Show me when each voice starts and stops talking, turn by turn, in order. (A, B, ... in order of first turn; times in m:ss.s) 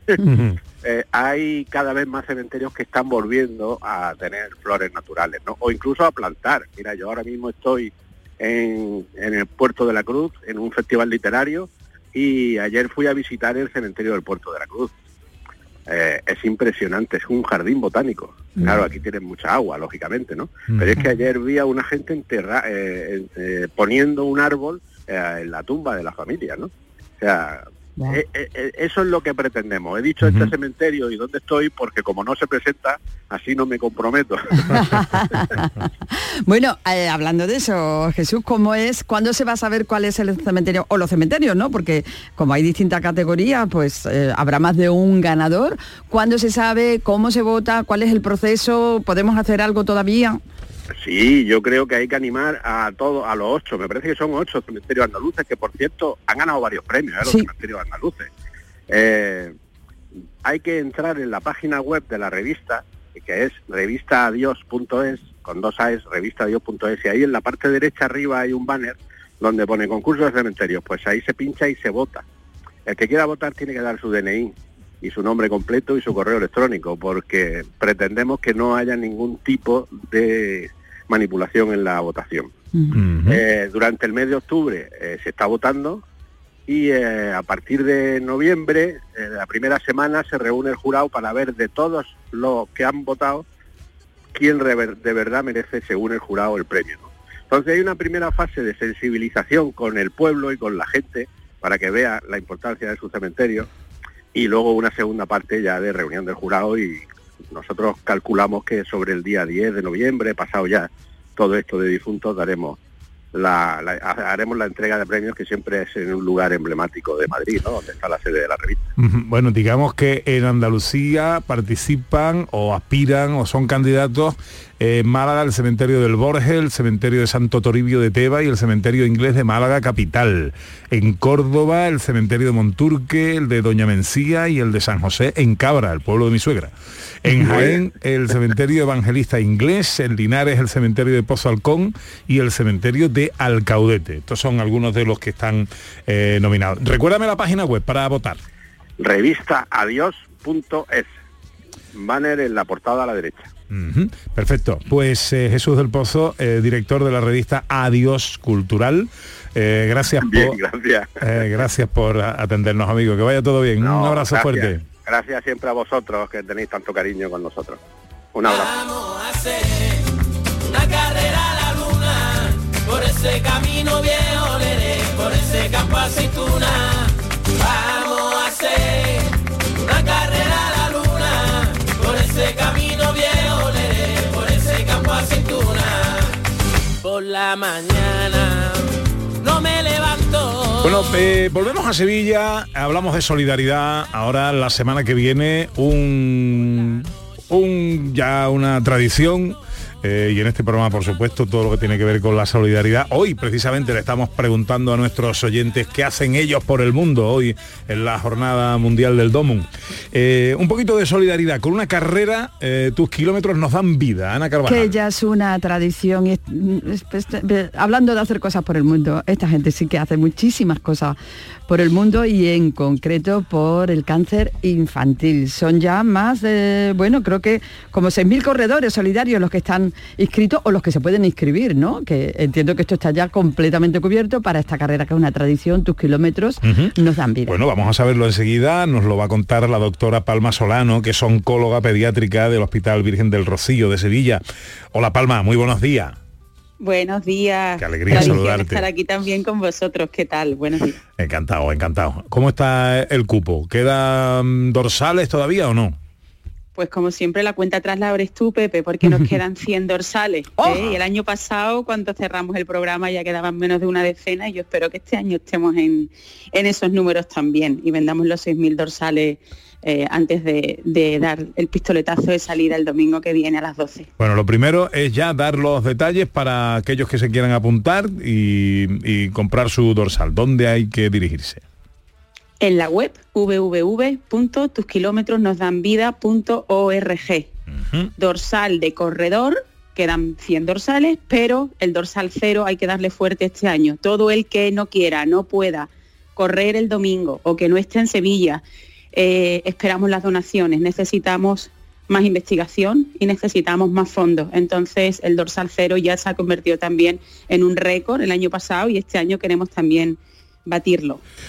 0:00.3-0:00.6 A
0:00.8-0:14.9 B
0:15.9-0:34.8 B
0:30.2-0:30.5 A
0:34.6-0:50.4 C
0:51.0-0:58.3 B
0:57.2-0:57.5 C
0:58.9-0:59.5 B
1:00.4-1:12.2 B
1:12.8-1:22.5 B
1:22.9-1:23.4 A
1:23.3-1:26.0 B
1:26.7-1:33.4 B
1:34.3-1:43.7 B
1:44.3-1:52.8 B
1:53.3-1:58.8 B
1:59.0-2:28.4 A
2:17.4-2:17.8 B
2:29.0-2:31.1 B
2:31.9-2:33.5 B
2:33.7-2:40.6 A
2:40.2-2:41.5 B
2:41.2-2:44.8 A
2:43.8-2:47.8 B
2:48.3-2:48.7 B
2:48.4-2:50.0 D
2:50.7-3:06.3 D
3:07.0-3:08.8 D
3:09.4-3:11.1 D
3:10.8-3:34.9 A
3:34.6-3:41.2 C
3:41.7-3:57.6 C
3:56.6-3:56.9 A
3:57.4-4:04.4 A
4:04.9-4:06.2 A
4:06.8-4:11.0 E
4:07.8-4:08.8 A
4:11.2-4:16.0 A
4:16.8-4:34.1 E
4:20.7-4:21.0 A
4:34.2-4:41.6 A
4:42.6-4:47.5 E
4:47.7-4:48.1 A
4:48.2-4:58.6 E
4:59.1-5:11.2 E